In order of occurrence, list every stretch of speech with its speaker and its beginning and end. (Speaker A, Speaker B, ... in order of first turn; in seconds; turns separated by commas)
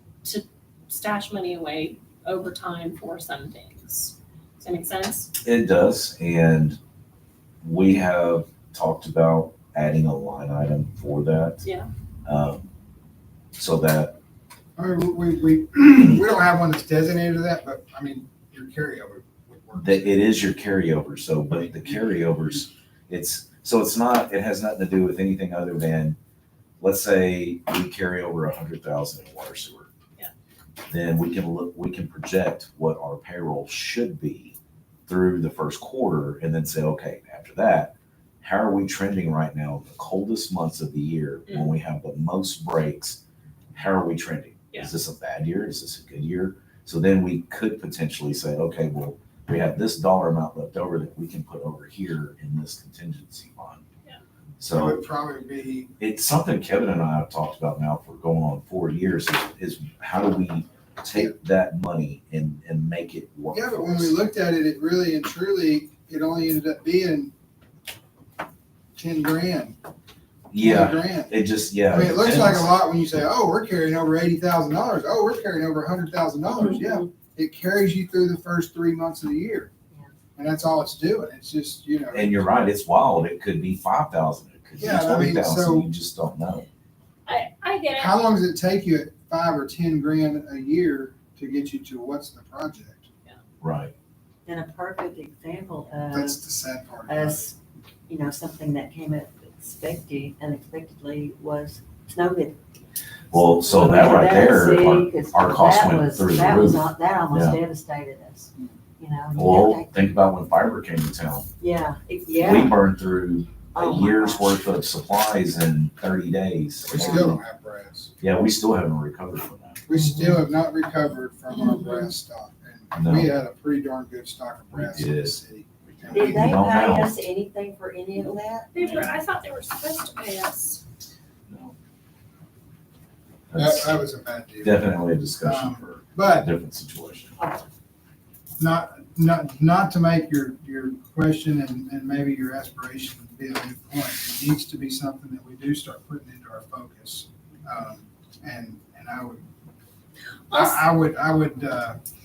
Speaker A: 0.2-5.3, Speaker B: 5.4-6.8, Speaker B: 7.6-11.6, Speaker B: 12.3-12.7, Speaker B: 13.6-14.2, Speaker C: 14.8-20.3, Speaker B: 19.8-26.2, Speaker C: 21.5-22.2, Speaker B: 26.8-29.9, Speaker B: 30.9-34.6, Speaker B: 35.1-43.2, Speaker B: 43.7-53.8, Speaker B: 54.6-55.0, Speaker C: 54.7-55.9, Speaker B: 56.0-64.2, Speaker C: 63.5-67.3, Speaker C: 69.0-69.8, Speaker B: 70.5-72.8, Speaker C: 70.6-71.3, Speaker C: 71.9-79.7, Speaker A: 76.5-77.0, Speaker C: 80.4-82.5, Speaker B: 82.1-86.7, Speaker C: 84.8-85.9, Speaker A: 87.3-88.2, Speaker C: 88.0-93.1, Speaker B: 93.6-93.9, Speaker D: 94.5-96.4, Speaker C: 96.1-97.5, Speaker D: 97.1-97.5, Speaker D: 98.1-102.6, Speaker B: 103.3-107.6, Speaker D: 103.6-110.1, Speaker B: 109.3-111.5, Speaker D: 111.6-112.8, Speaker B: 112.4-117.4, Speaker D: 113.8-114.5, Speaker C: 116.8-118.1, Speaker D: 116.9-117.3, Speaker B: 118.2-119.8, Speaker C: 119.9-126.6, Speaker D: 119.9-120.4, Speaker A: 121.5-122.0, Speaker B: 122.9-123.3, Speaker B: 124.7-127.1, Speaker D: 126.1-128.7, Speaker A: 128.7-130.8, Speaker B: 128.8-129.1, Speaker B: 131.5-131.8, Speaker B: 133.5-134.0, Speaker C: 133.6-136.5, Speaker B: 134.6-137.4, Speaker D: 137.4-137.7, Speaker C: 138.6-149.4, Speaker A: 150.5-150.8, Speaker C: 150.5-152.0